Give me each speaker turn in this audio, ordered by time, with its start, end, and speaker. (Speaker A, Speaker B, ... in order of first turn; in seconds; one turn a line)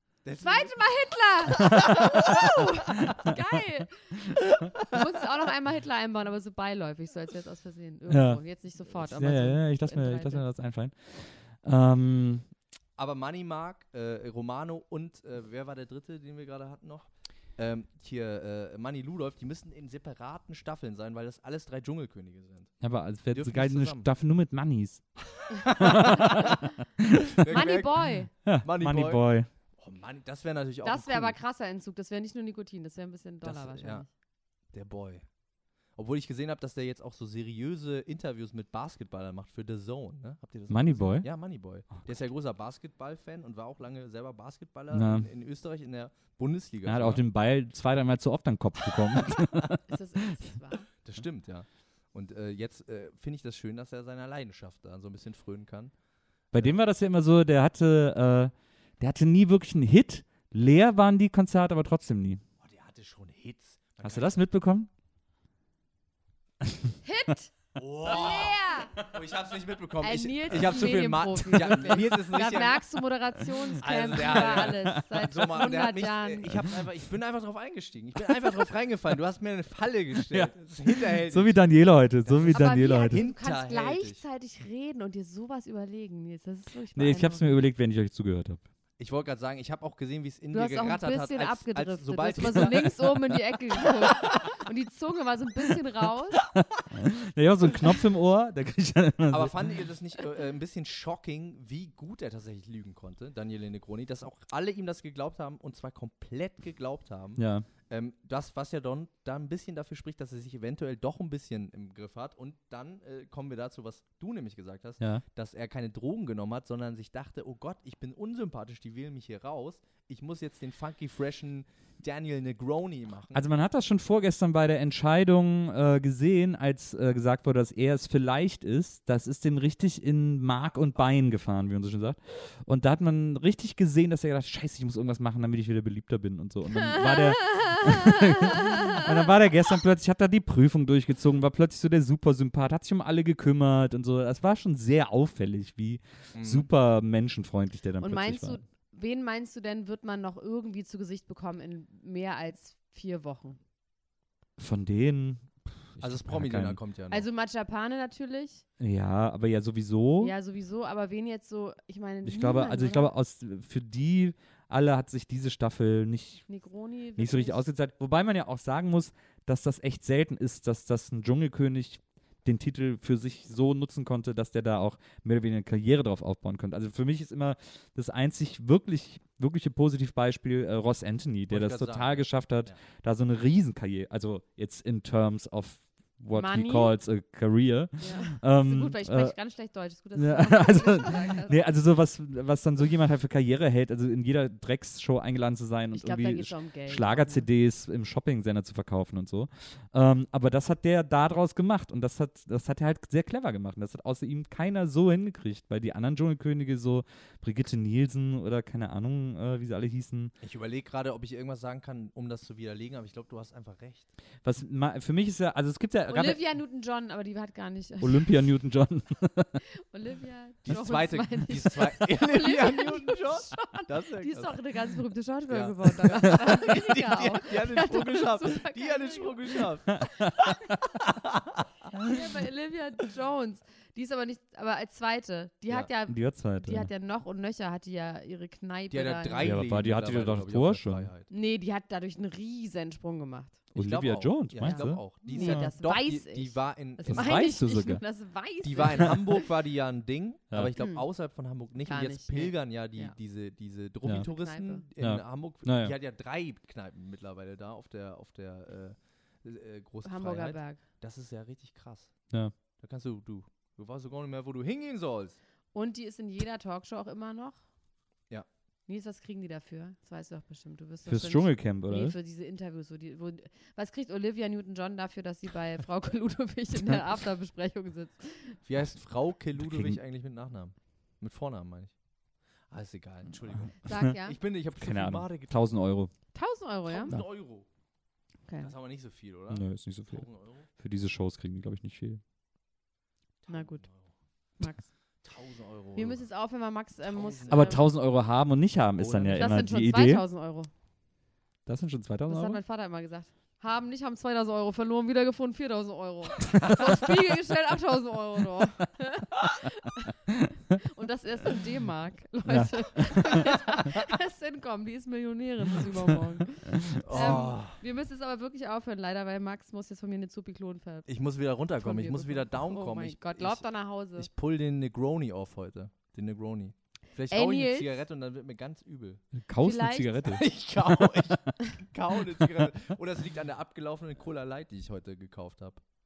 Speaker A: 0.2-0.9
Speaker B: 0.4-10.4
Speaker C: 1.7-3.3
Speaker C: 8.1-12.5
Speaker A: 13.0-24.1
Speaker C: 22.8-25.1
Speaker A: 25.6-26.6
Speaker C: 25.7-27.3
Speaker B: 26.1-26.7
Speaker A: 27.3-31.4
Speaker B: 27.5-28.3
Speaker C: 28.4-29.5
Speaker B: 30.8-34.1
Speaker A: 33.4-34.0
Speaker A: 34.7-35.2
Speaker A: 36.0-47.2
Speaker C: 40.7-41.3
Speaker C: 44.9-45.3
Speaker C: 46.8-49.8
Speaker B: 49.9-50.9
Speaker A: 51.0-55.9
Speaker A: 56.5-56.8
Speaker C: 56.5-62.4
Speaker A: 62.6-64.4
Speaker C: 64.0-64.9
Speaker B: 67.0-67.5
Speaker A: 67.8-72.8
Speaker B: 68.0-68.9
Speaker B: 70.0-76.5
Speaker A: 73.8-84.2
Speaker C: 74.6-75.0
Speaker C: 81.1-83.2
Speaker B: 82.5-87.6
Speaker C: 86.9-88.6
Speaker A: 89.0-92.9
Speaker B: 90.5-96.4
Speaker C: 92.4-93.2
Speaker C: 96.4-99.5
Speaker A: 99.3-123.4
Speaker C: 107.4-107.7
Speaker C: 123.3-148.6
Speaker B: 136.8-139.1
Speaker A: 146.3-146.7
Speaker B: 148.0-153.6
Speaker C: 154.6-156.8
Speaker A: 156.0-157.3
Speaker B: 157.1-158.6
Speaker C: 158.8-160.3
Speaker B: 160.2-163.1
Speaker C: 162.2-166.5
Speaker B: 166.5-167.6
Speaker C: 167.2-189.3
Speaker A: 181.5-182.8
Speaker B: 186.3-186.9
Speaker B: 188.0-191.6
Speaker C: 190.2-210.3
Speaker B: 195.9-197.5
Speaker A: 210.4-214.1
Speaker C: 214.4-216.4
Speaker B: 216.1-218.4
Speaker C: 218.0-219.6
Speaker B: 219.8-230.9
Speaker A: 220.7-224.6
Speaker A: 225.5-231.7
Speaker B: 231.9-239.6
Speaker C: 236.1-236.9
Speaker A: 238.9-241.3
Speaker C: 239.4-241.1
Speaker B: 241.3-243.6
Speaker C: 243.7-245.7
Speaker A: 243.7-247.4
Speaker B: 244.6-249.4
Speaker C: 247.0-248.0
Speaker A: 248.6-262.1
Speaker B: 250.7-251.1
Speaker B: 251.8-253.1
Speaker B: 254.1-254.8
Speaker C: 255.0-255.9
Speaker B: 260.0-260.8
Speaker A: 262.8-265.4
Speaker B: 265.7-267.6
Speaker B: 268.9-278.6
Speaker C: 271.1-272.1
Speaker A: 278.6-281.9
Speaker C: 279.6-280.0
Speaker A: 282.7-285.6
Speaker C: 283.5-284.1
Speaker B: 283.8-284.4
Speaker C: 284.8-286.1
Speaker B: 286.3-287.2
Speaker A: 286.9-287.7
Speaker A: 288.6-290.6
Speaker C: 289.5-292.2
Speaker A: 293.4-294.1
Speaker B: 293.5-293.8
Speaker A: 295.2-296.2
Speaker B: 295.9-297.8
Speaker A: 297.1-297.8
Speaker C: 297.5-300.2
Speaker A: 299.0-299.6
Speaker B: 299.3-300.7
Speaker C: 301.6-302.6
Speaker B: 302.3-310.1
Speaker C: 306.5-306.9
Speaker B: 310.8-321.1
Speaker C: 312.5-313.6
Speaker C: 316.8-317.5
Speaker A: 317.0-317.7
Speaker A: 321.1-323.6
Speaker B: 321.8-324.3
Speaker A: 324.1-329.2
Speaker B: 327.3-327.9
Speaker C: 329.3-330.4
Speaker B: 329.6-330.3
Speaker A: 330.3-335.8
Speaker C: 331.0-331.3